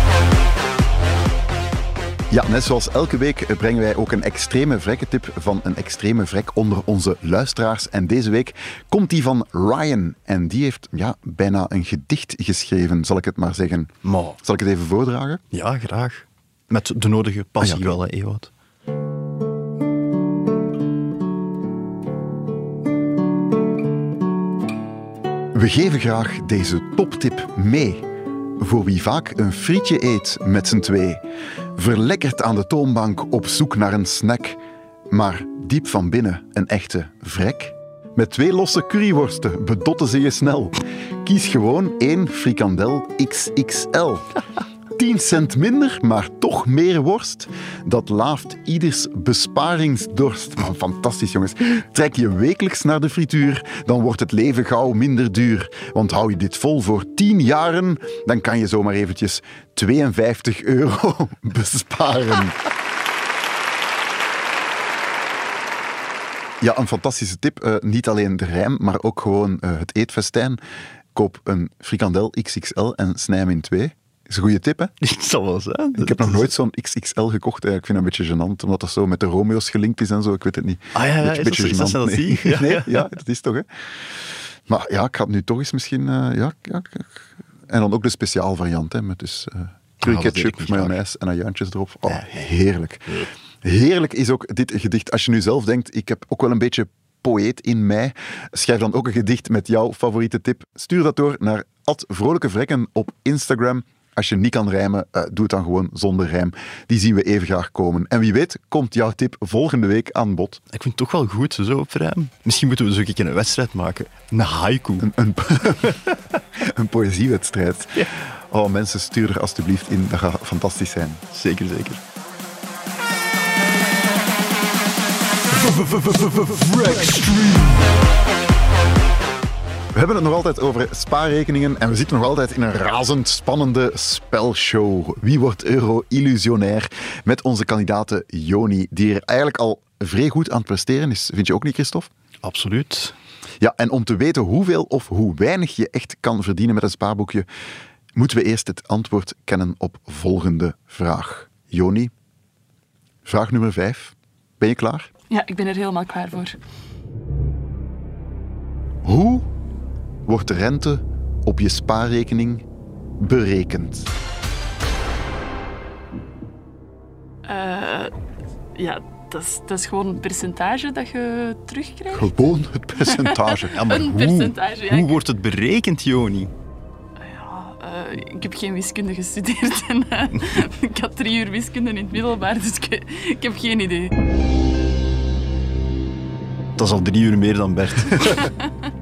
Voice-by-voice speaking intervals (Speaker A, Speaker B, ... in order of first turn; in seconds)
Speaker A: 2.3-15.4, 17.6-17.9, 25.5-28.1, 28.6-31.2, 31.8-44.4, 45.0-62.6, 66.6-70.6, 71.1-74.9, 76.0-83.7, 84.7-110.6, 115.0-116.0, 116.6-121.2, 125.7-127.8, 129.9-142.1, 143.6-147.5, 148.2-152.1, 153.2-155.1, 159.0-159.5, 160.3-162.7, 163.2-164.1, 172.1-173.8
Speaker B: 14.0-14.4, 15.5-18.5, 75.0-76.5, 81.0-83.1, 90.0-91.0, 110.7-115.1, 121.3-122.0, 126.0-127.0, 142.4-143.2, 173.7-176.5, 186.8-188.5
Speaker C: 155.3-156.6, 167.4-168.1, 168.8-172.3, 173.1-175.2, 177.2-184.1